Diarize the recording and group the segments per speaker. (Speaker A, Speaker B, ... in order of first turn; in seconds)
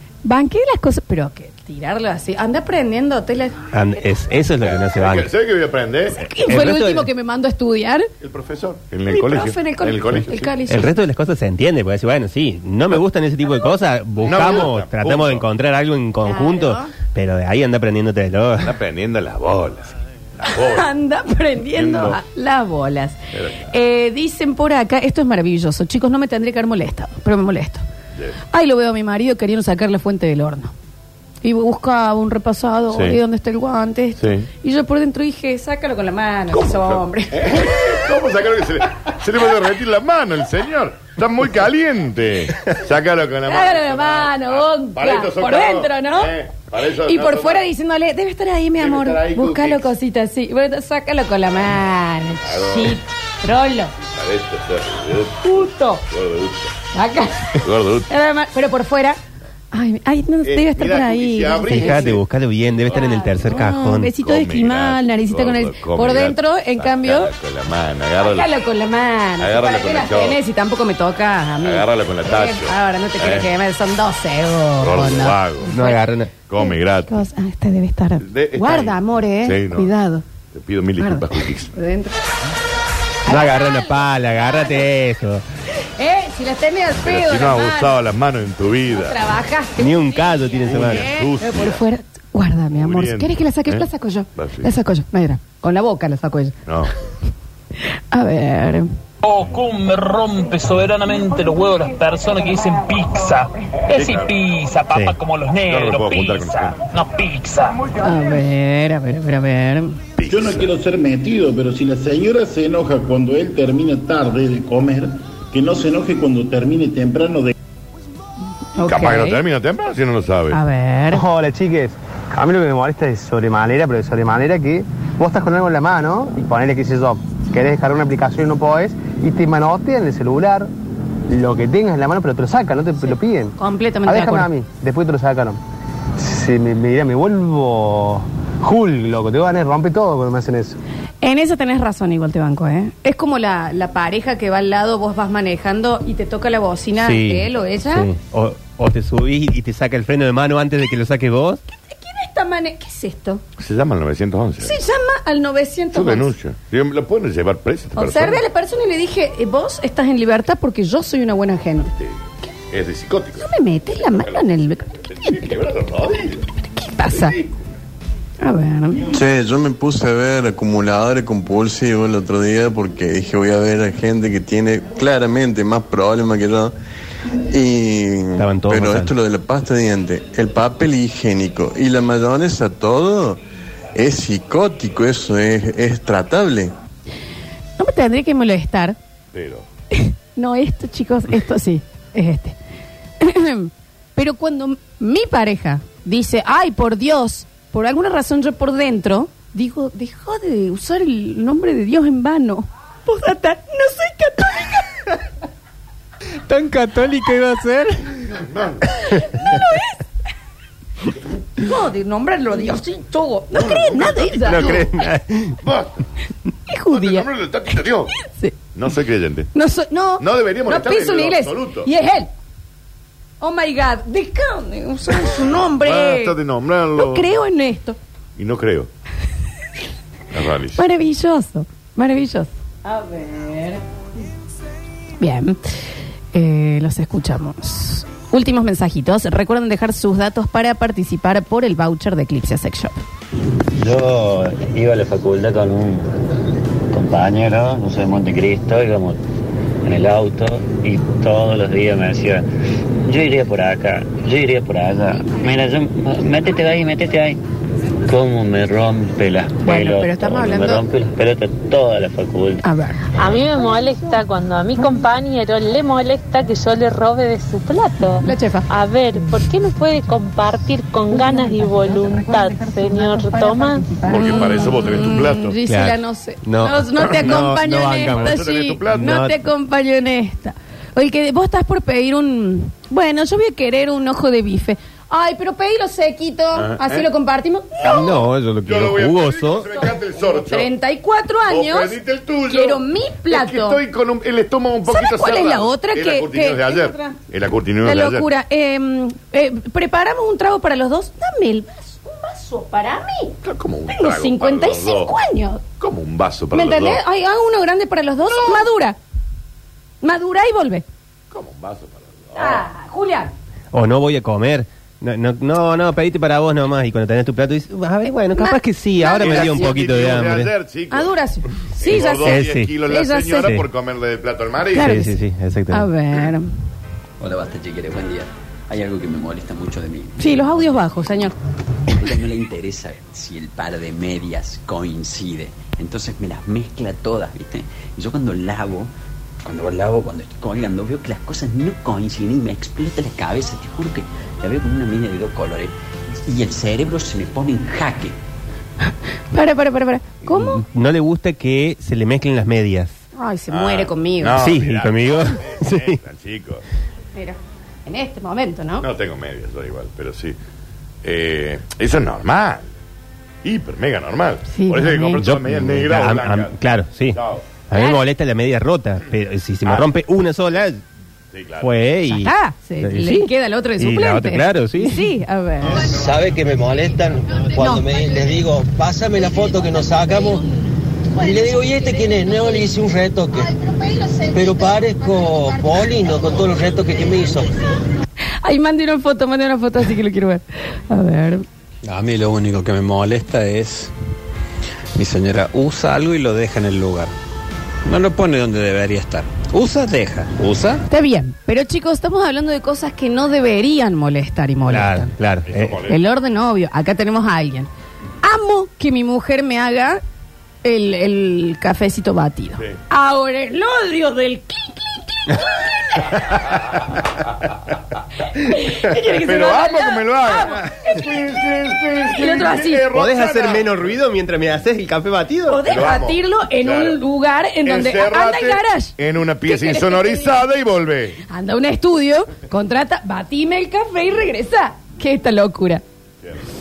Speaker A: 0.2-3.6, 6.2-8.1, 9.1-10.9, 14.2-14.5, 16.2-16.9, 20.5-23.2, 23.7-27.8, 28.5-30.7, 31.4-37.6, 43.5-46.3, 47.0-53.9, 55.4-56.0, 56.9-59.2, 59.7-62.1, 62.9-67.3, 68.2-76.0, 76.6-80.2, 81.0-82.1, 83.3-83.9, 84.4-84.7, 85.8-87.9, 88.9-96.5, 98.1-98.9, 108.0-110.0, 118.8-119.4, 120.5-121.2, 133.6-134.5, 141.2-148.1, 151.9-153.4, 154.6-156.3, 158.0-161.9, 163.4-165.6, 166.7-167.3, 168.4-169.1, 187.8-189.0, 189.9-192.6, 193.2-205.0, 209.1-209.9, 211.6-214.7, 216.7-217.3, 218.2-218.6, 219.5-222.3, 223.4-226.3, 227.0-228.0, 230.8-233.8, 235.2-235.6, 236.3-243.0, 259.6-260.8, 262.6-263.0, 268.2-268.6, 274.0-288.2, 290.3-292.0, 292.5-293.8, 294.9-297.2, 297.8-303.4, 303.9-305.6, 306.5-309.0, 310.0-310.8, 312.3-313.3, 318.4-319.8, 320.9-323.5, 324.7-325.2, 325.7-326.5, 330.2-331.3, 348.9-350.6, 353.1-354.4, 357.1-358.8, 364.5-365.2, 367.7-368.0, 372.0-375.8, 388.4-391.4, 400.9-405.1, 405.9-407.7, 408.2-410.0, 410.6-416.5, 418.3-421.0, 422.1-422.9, 425.5-430.4, 431.3-435.8
Speaker B: 3.7-5.3, 6.4-7.1, 10.7-18.7, 61.7-64.2, 75.7-76.3, 83.3-85.4, 89.8-91.1, 147.0-151.6, 178.4-179.1, 206.5-207.9, 214.4-215.6, 275.7-278.4, 278.9-279.3, 287.9-289.8, 313.7-320.5, 322.2-322.7, 324.8-325.9, 350.3-353.0, 354.3-356.0, 365.1-367.2, 367.7-370.8, 371.6-375.1, 404.7-405.8, 422.9-425.6
Speaker C: 4.6-6.2, 8.2-10.5, 14.2-15.4, 18.6-20.9, 21.7-22.2, 23.3-23.7, 32.9-33.2, 34.2-34.5, 36.5-47.6, 48.8-49.9, 52.4-53.0, 54.0-56.7, 57.6-58.1, 60.4-62.2, 62.9-63.3, 64.2-68.5, 69.4-70.4, 71.6-73.5, 74.8-75.7, 76.5-77.1, 78.2-79.9, 80.5-81.7, 87.0-89.2, 90.7-91.8, 92.8-94.7, 96.7-96.9, 103.9-104.3, 105.7-106.8, 110.2-110.7, 118.9-120.6, 153.6-154.8, 155.9-158.4, 162.7-163.4, 164.1-166.5, 167.1-167.6, 189.3-189.6, 208.2-208.9, 213.5-215.1, 215.6-216.0, 216.9-218.1, 218.7-219.5, 220.2-221.9, 225.1-227.4, 228.4-228.9, 230.3-230.8, 274.1-275.6, 277.0-279.1, 286.5-287.1, 287.8-290.7, 291.5-298.3, 303.4-305.1, 305.8-307.0, 311.3-312.6, 319.2-321.1, 321.8-324.9, 353.5-356.6, 358.8-360.4, 361.0-362.7, 363.4-366.6, 367.1-367.4, 371.3-371.7, 405.5-406.0, 418.9-423.9, 425.6-427.0, 427.6-431.2
Speaker D: 99.2-107.8
Speaker E: 110.3-117.5
Speaker F: 121.1-130.7, 131.3-135.6, 136.2-140.8
Speaker G: 169.1-176.7, 177.5-183.4, 183.9-186.7
Speaker H: 243.8-246.1, 246.9-249.2, 249.8-252.5, 253.0-257.4, 258.1-262.6
Speaker I: 263.1-274.0
Speaker J: 327.2-331.1, 331.9-338.9, 339.4-345.7, 346.2-348.1
Speaker K: 375.8-380.5, 381.1-383.6, 384.2-387.5
Speaker L: 391.9-393.9, 394.9-397.1, 397.8-400.8